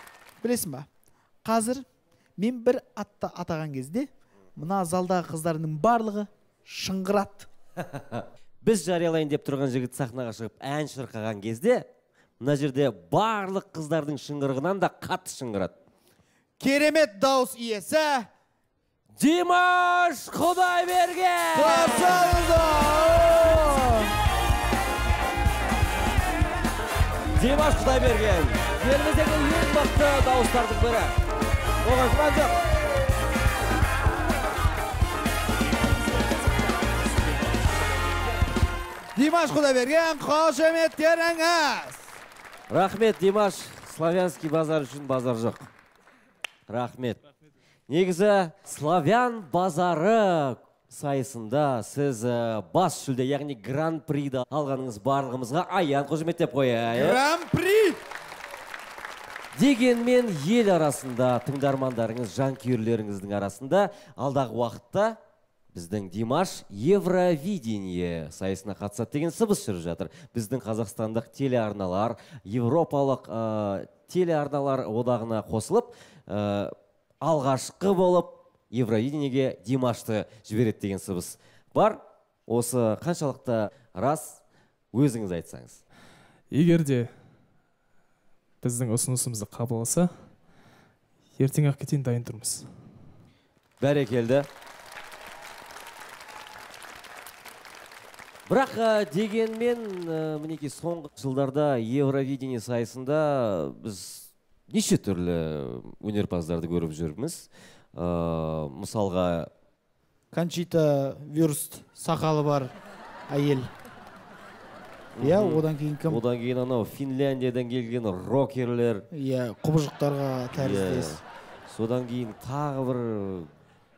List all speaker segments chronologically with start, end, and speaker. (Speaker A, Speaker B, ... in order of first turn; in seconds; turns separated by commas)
Speaker A: 0.4-0.9, Speaker A: 1.4-1.8, Speaker A: 2.4-7.5, Speaker B: 7.8-11.8, Speaker B: 12.4-15.7, Speaker A: 16.6-18.3, Speaker B: 19.2-22.3, Speaker A: 21.5-24.1, Speaker B: 27.4-31.2, Speaker B: 31.8-32.5, Speaker A: 39.2-42.0, Speaker B: 42.7-45.7, Speaker B: 46.7-47.2, Speaker B: 47.9-57.2, Speaker A: 56.9-58.0, Speaker B: 59.5-65.2, Speaker B: 65.7-84.4, Speaker B: 84.9-85.8, Speaker C: 86.5-87.1, Speaker C: 88.6-90.1, Speaker C: 91.4-92.7, Speaker B: 93.8-94.5, Speaker B: 98.5-109.5, Speaker A: 110.3-112.7, Speaker A: 113.3-113.7, Speaker B: 115.2-119.0, Speaker A: 115.2-116.2, Speaker A: 119.1-121.2, Speaker B: 120.5-123.5